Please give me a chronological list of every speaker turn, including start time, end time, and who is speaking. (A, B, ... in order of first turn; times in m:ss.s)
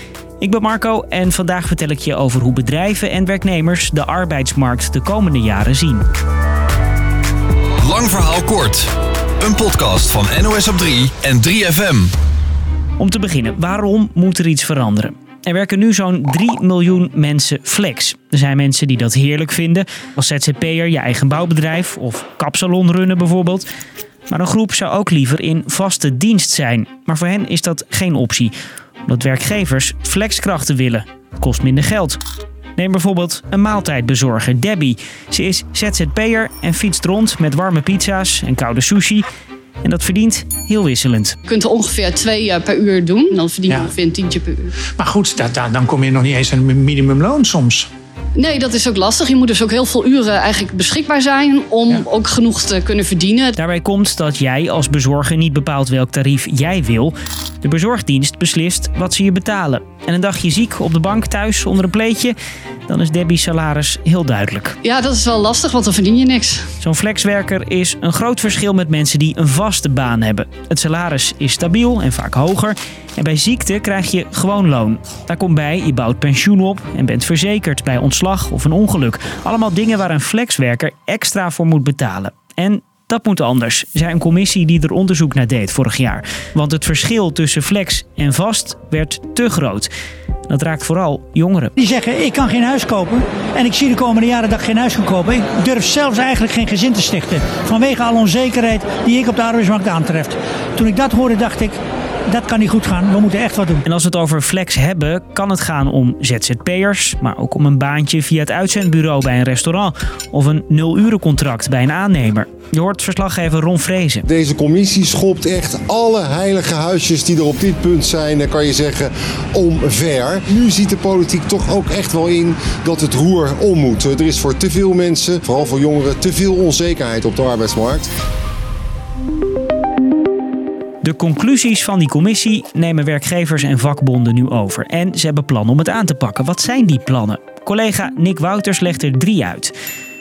0:00.4-0:06.0 A
0:07.8-0:08.9 B
0:09.4-0:12.1 B
0:13.0-0:23.7 A
0:24.3-0:28.5 A
0:29.1-0:32.2 A
0:32.8-0:39.2 A
0:39.8-0:41.4 A
0:41.5-0:44.8 C
0:44.9-0:47.9 D
0:48.4-0:53.6 C
0:53.6-1:02.4 A
1:02.9-1:04.8 A
1:04.8-1:06.7 C
1:06.8-1:29.9 A
1:30.5-1:31.7 A
1:31.8-1:41.8 E
1:42.3-1:43.8 E
1:43.8-1:54.2 A
1:54.3-2:08.1 F
2:11.0-2:19.7 A